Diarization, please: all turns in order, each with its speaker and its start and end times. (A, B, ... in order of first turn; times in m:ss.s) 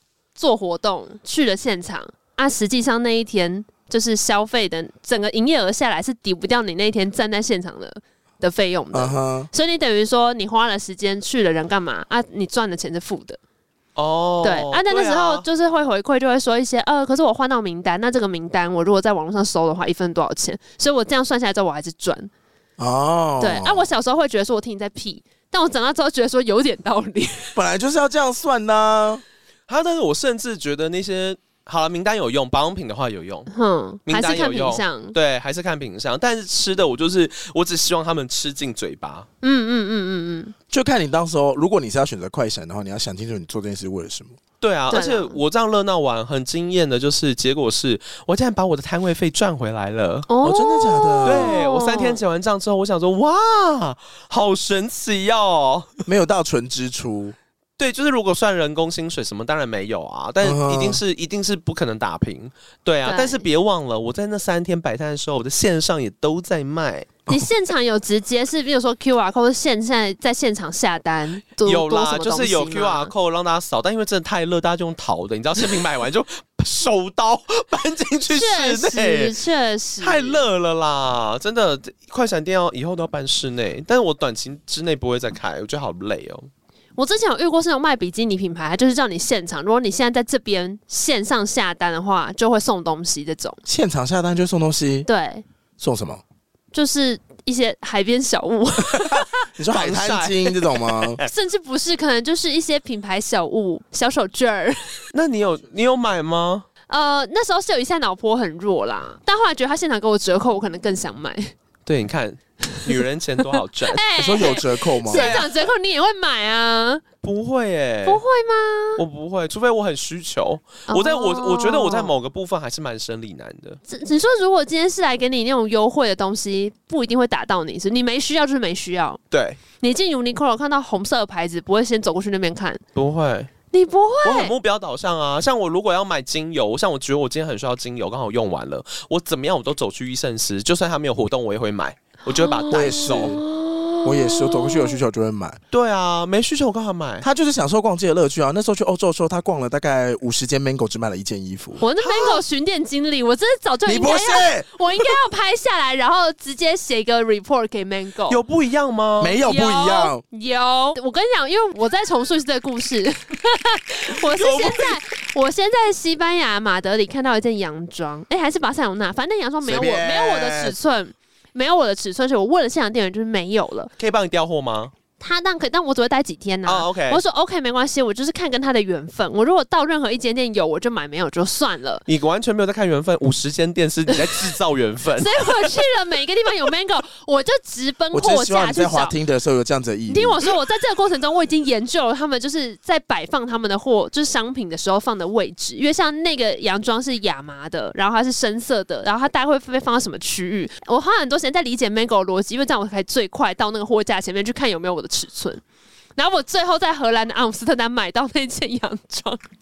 0:00.3-0:13.4 A
0:08.9-0:09.5 B
0:14.0-0:15.4 C
0:14.4-0:22.3 A
0:22.8-0:23.9 B
0:23.4-0:27.6 A
0:27.5-0:29.2 B
0:29.7-0:33.5 C
0:33.5-0:35.1 A
0:34.0-0:39.3 C
0:39.4-0:40.5 A
0:40.7-0:44.4 B
0:44.6-0:50.3 C
0:44.9-0:45.4 A
0:50.3-0:52.2 A
0:50.4-0:51.6 B
0:51.2-0:55.9 C
0:56.0-0:57.4 B
0:57.8-1:07.1 C
1:00.4-1:01.0 B
1:03.0-1:03.4 A
1:07.3-1:13.1 A
1:11.6-1:19.3 C
1:18.3-1:20.4 A
1:20.0-1:26.5 C
1:27.0-1:33.6 A
1:33.6-1:35.1 B
1:35.0-1:35.4 A
1:35.8-1:36.2 B
1:36.7-1:39.4 A
1:39.6-1:41.2 B
1:39.7-1:41.3 C
1:41.2-1:45.0 A
1:45.1-1:46.6 C
1:46.9-1:51.5 A
1:51.8-1:54.0 C
1:52.6-1:53.0 A
1:53.9-1:57.0 A
1:54.2-1:55.3 B
1:55.1-1:55.5 C
1:57.2-1:58.2 C
1:58.0-1:59.0 A
1:59.0-2:03.8 C
2:00.9-2:02.1 A
2:03.9-2:09.2 A
2:09.3-2:09.6 C
2:09.8-2:12.8 A
2:12.9-2:13.5 C
2:13.7-2:14.5 A
2:14.2-2:23.3 C
2:22.3-2:25.0 A
2:22.7-2:23.4 B
2:24.0-2:25.6 B
2:25.7-2:27.2 C
2:27.2-2:31.8 B
2:31.8-2:38.4 A
2:32.1-2:32.3 C
2:33.8-2:34.7 B
2:38.3-2:39.4 C
2:39.2-2:40.2 B
2:39.4-2:53.9 A
2:44.3-2:45.0 C
2:49.6-2:50.8 B
2:54.0-2:54.9 C
2:55.2-3:02.0 A
2:56.6-2:57.2 C
3:02.1-3:05.5 C
3:05.2-3:09.1 A
3:08.1-3:10.4 B
3:10.1-3:25.6 A
3:26.2-3:29.4 A